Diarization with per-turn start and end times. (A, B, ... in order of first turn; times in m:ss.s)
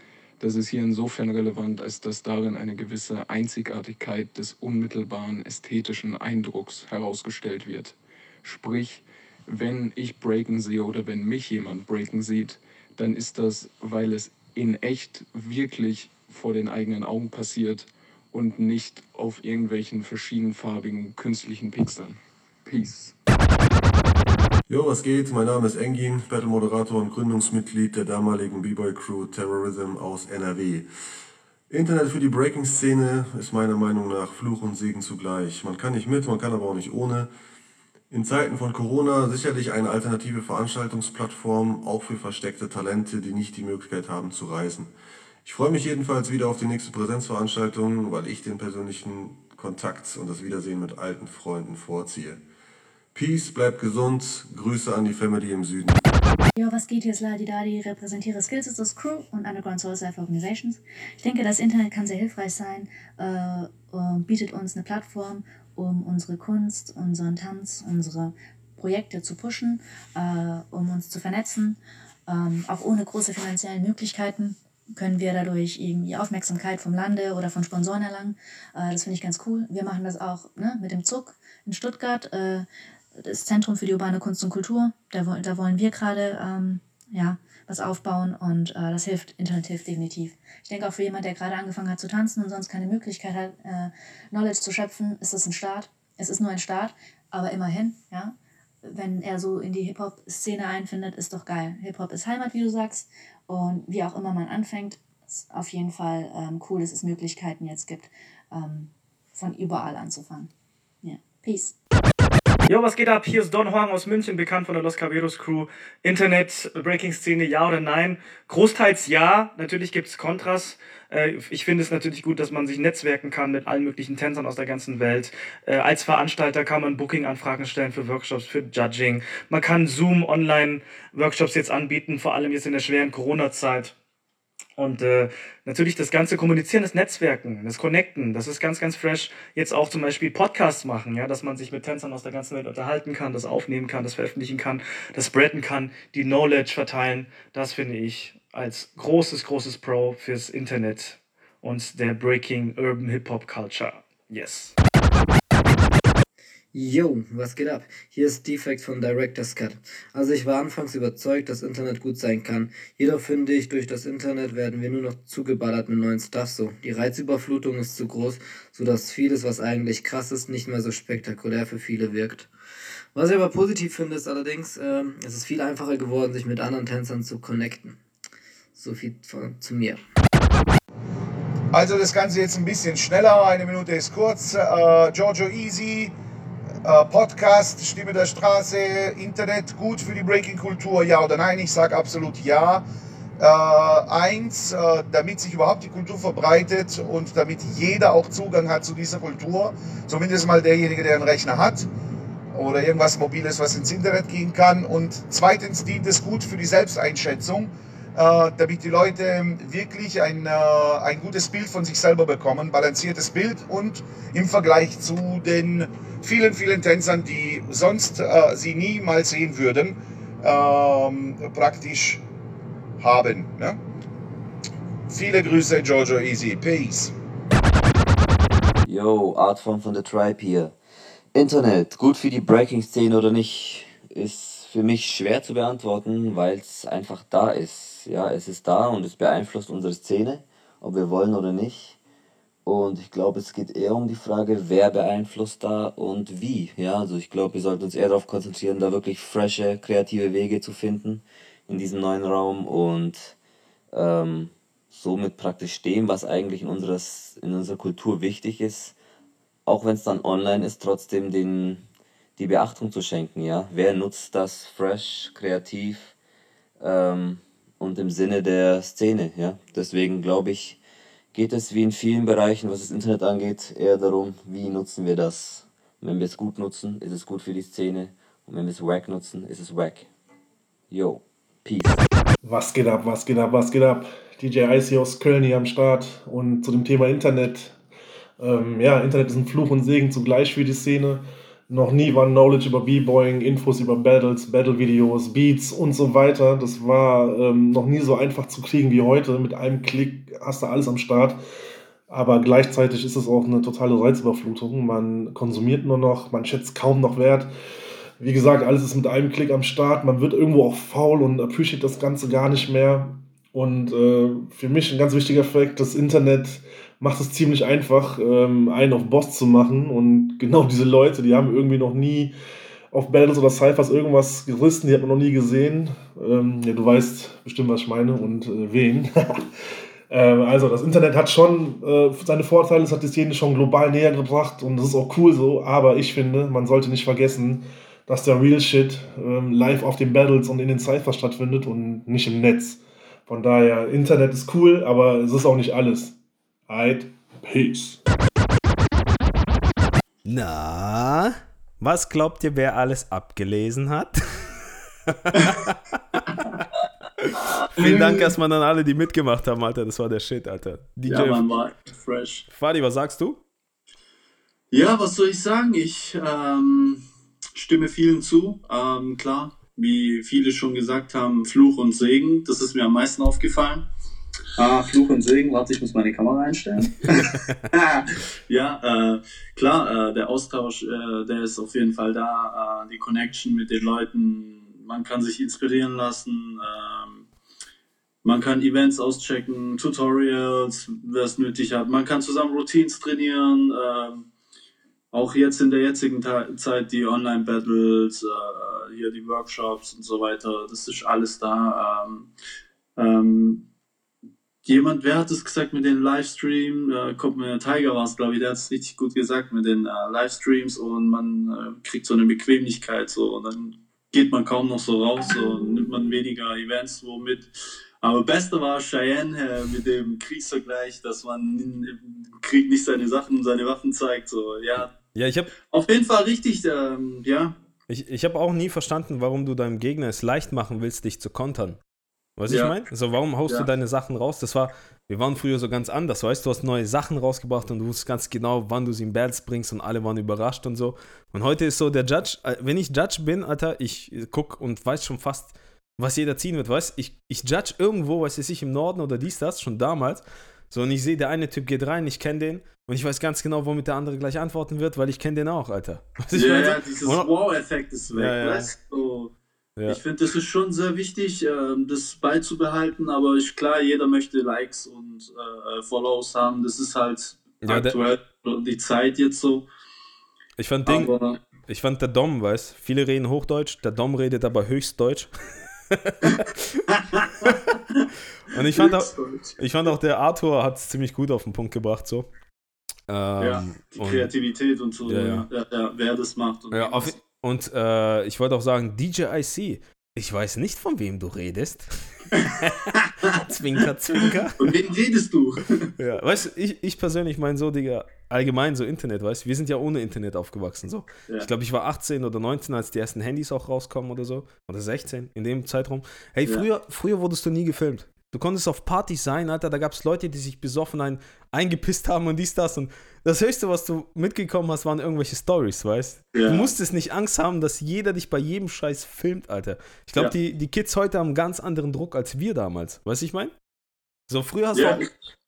0:00.4-0:23.2 A
0:24.7-0:30.9 B
0:31.7-0:37.3 B
0:38.1-0:44.9 B
0:45.4-0:52.4 B
0:53.1-0:56.0 B
0:56.6-1:50.5 C
1:51.0-1:51.7 C
1:52.6-2:13.9 D
2:14.8-2:34.8 D
2:36.7-2:52.5 E
2:53.1-2:58.0 E
2:58.7-3:00.0 E
3:01.7-3:06.1 F
3:06.8-3:12.8 F
3:13.4-3:21.9 F
3:22.5-3:42.2 F
3:43.0-3:43.8 F
3:45.1-3:47.1 F
3:48.8-3:50.7 G
3:51.3-4:02.0 G
4:02.6-4:13.3 G
4:13.9-4:18.9 G
4:19.6-4:21.8 G
4:22.4-4:26.1 G
4:26.8-4:30.8 G
4:31.3-4:40.1 G
4:40.9-4:42.0 G
4:42.4-4:47.8 H
4:48.4-5:01.4 H
5:02.1-5:07.5 H
5:08.2-5:22.3 H
5:22.9-5:29.5 H
5:30.1-5:46.1 H
5:46.7-5:48.0 H
5:50.2-5:54.7 I
5:55.3-5:55.7 I
5:56.3-5:56.6 J
5:57.3-5:58.3 J
5:57.8-6:01.5 I
6:01.0-6:02.4 J
6:02.5-6:03.4 I
6:04.7-6:07.0 J
6:07.5-6:13.9 J
6:14.6-6:27.3 J
6:28.2-6:34.3 J
6:35.1-6:42.3 J
6:43.0-6:43.6 J
6:44.6-6:57.5 J
6:58.0-7:04.9 J
7:05.1-7:05.5 I
7:05.7-7:07.5 J
7:07.9-7:11.8 I
7:12.4-7:37.3 I
7:12.5-7:12.7 J
7:36.3-7:39.3 J
7:38.1-7:38.7 I
7:39.9-7:49.7 J
7:47.6-7:48.0 I
7:50.6-7:51.1 I
7:50.8-7:51.4 J
7:51.7-7:55.3 I
7:55.9-7:56.8 I
7:56.2-7:58.1 J
7:58.5-8:02.3 I
7:58.7-7:59.9 J
8:03.1-8:04.3 I
8:03.4-8:07.2 J
8:05.0-8:05.4 I
8:06.7-8:14.7 I
8:12.3-8:13.4 J
8:14.6-8:15.9 J
8:16.0-8:43.5 I
8:36.3-8:36.6 J
8:44.3-8:45.0 I
8:44.7-8:45.0 J